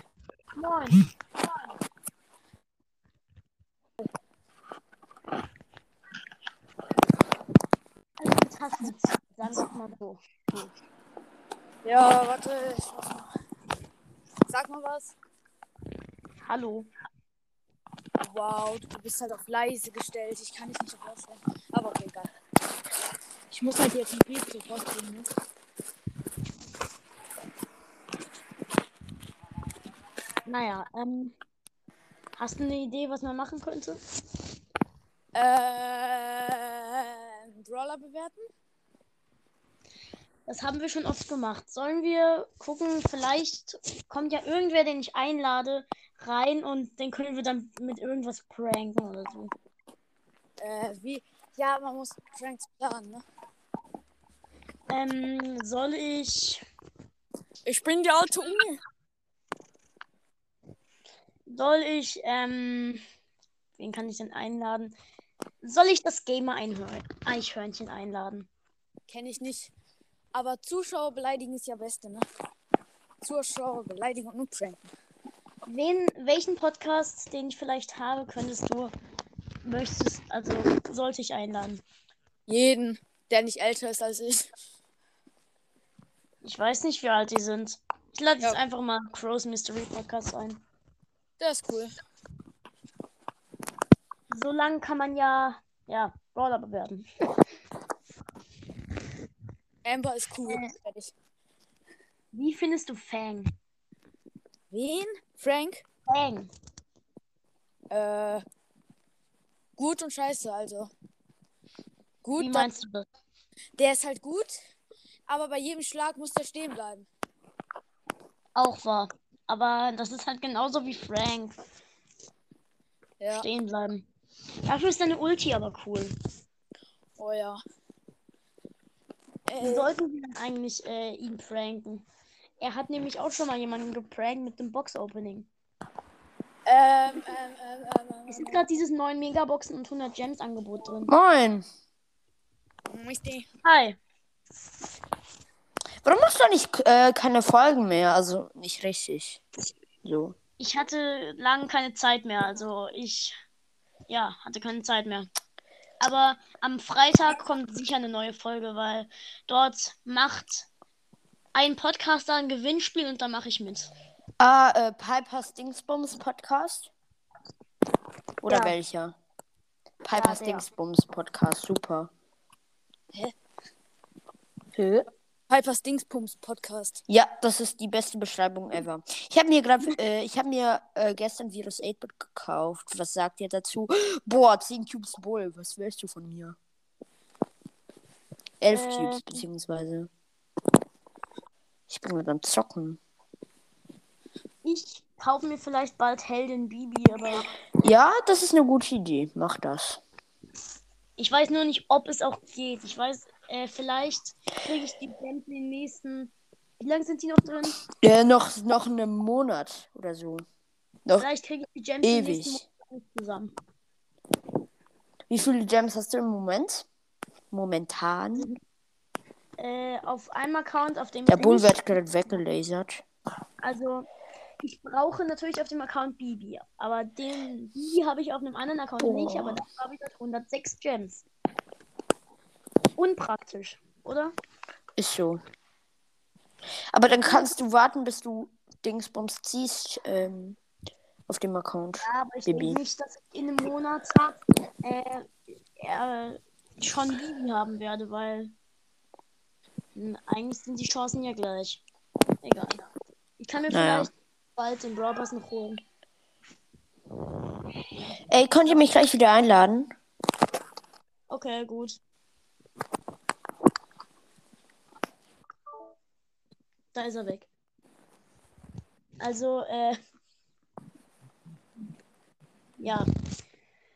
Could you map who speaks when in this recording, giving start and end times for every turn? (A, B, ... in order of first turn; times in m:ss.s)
0:00.6-0:01.0 A
0:08.2-0:10.7 A
0:11.8-0:13.3 B
0:14.5-0:15.1 B
0:16.4-0:16.9 A
0:18.2-0:22.3 B
0:23.5-0:25.3 B
0:30.4-0:31.3 A
0:32.4-0:34.0 A
0:35.3-0:38.4 B
0:40.4-0:49.5 A
0:50.6-0:53.2 B
0:54.9-0:56.6 A
0:57.6-0:58.8 B
1:01.5-1:03.0 A
1:03.8-1:04.9 A
1:05.6-1:08.5 A
1:09.1-1:09.7 B
1:10.3-1:12.2 B
1:13.2-1:14.9 B
1:15.6-1:18.9 A
1:19.6-1:21.8 A
1:22.5-1:24.5 B
1:26.4-1:30.6 A
1:31.4-1:31.9 B
1:34.3-1:37.0 A
1:39.8-1:41.1 B
1:40.4-1:40.7 A
1:42.3-1:43.5 A
1:44.7-1:45.8 B
1:46.1-1:46.5 A
1:47.9-1:48.4 B
1:49.8-1:50.9 B
1:52.2-1:52.7 B
1:52.4-1:53.1 A
1:53.8-1:54.5 B
1:55.3-1:57.1 B
1:58.5-2:01.6 A
2:03.2-2:03.4 B
2:03.3-2:04.1 A
2:04.6-2:06.1 A
2:07.2-2:07.6 B
2:09.5-2:09.9 B
2:09.6-2:12.0 A
2:12.6-2:15.5 A
2:16.6-2:18.6 B
2:18.3-2:21.1 A
2:21.1-2:21.6 C
2:22.9-2:23.4 B
2:23.6-2:24.0 A
2:26.0-2:29.4 C
2:30.0-2:30.4 C
2:30.6-2:33.3 A
2:34.1-2:35.3 A
2:36.0-2:40.7 A
2:41.5-2:43.9 A
2:44.4-2:46.9 C
2:48.4-2:49.2 C
2:48.5-2:48.8 A
2:50.0-2:52.1 C
2:50.1-2:50.7 A
2:54.7-2:55.1 C
2:55.5-2:57.0 B
2:57.1-3:06.6 C
3:08.6-3:10.1 C
3:08.7-3:09.4 A
3:11.9-3:13.0 C
3:14.6-3:17.4 A
3:17.8-3:20.0 C
3:21.2-3:27.8 A
3:28.0-3:30.4 C
3:31.2-3:33.5 A
3:32.0-3:32.6 C
3:35.3-3:36.8 C
3:37.5-3:38.5 C
3:39.6-3:41.9 A
3:41.3-3:43.0 C
3:43.6-3:44.1 A
3:44.6-3:51.2 A
3:49.0-3:49.6 C
3:53.0-3:54.3 A
3:55.0-3:55.4 C
3:56.9-4:00.6 C
3:57.2-3:57.6 A
4:01.3-4:02.8 C
4:02.0-4:08.5 A
4:09.9-4:11.8 A
4:12.4-4:12.8 A
4:13.4-4:15.8 A
4:13.7-4:14.1 C
4:18.3-4:19.9 C
4:21.3-4:22.0 A
4:26.9-4:27.5 A
4:29.2-4:30.0 A
4:32.8-4:33.1 A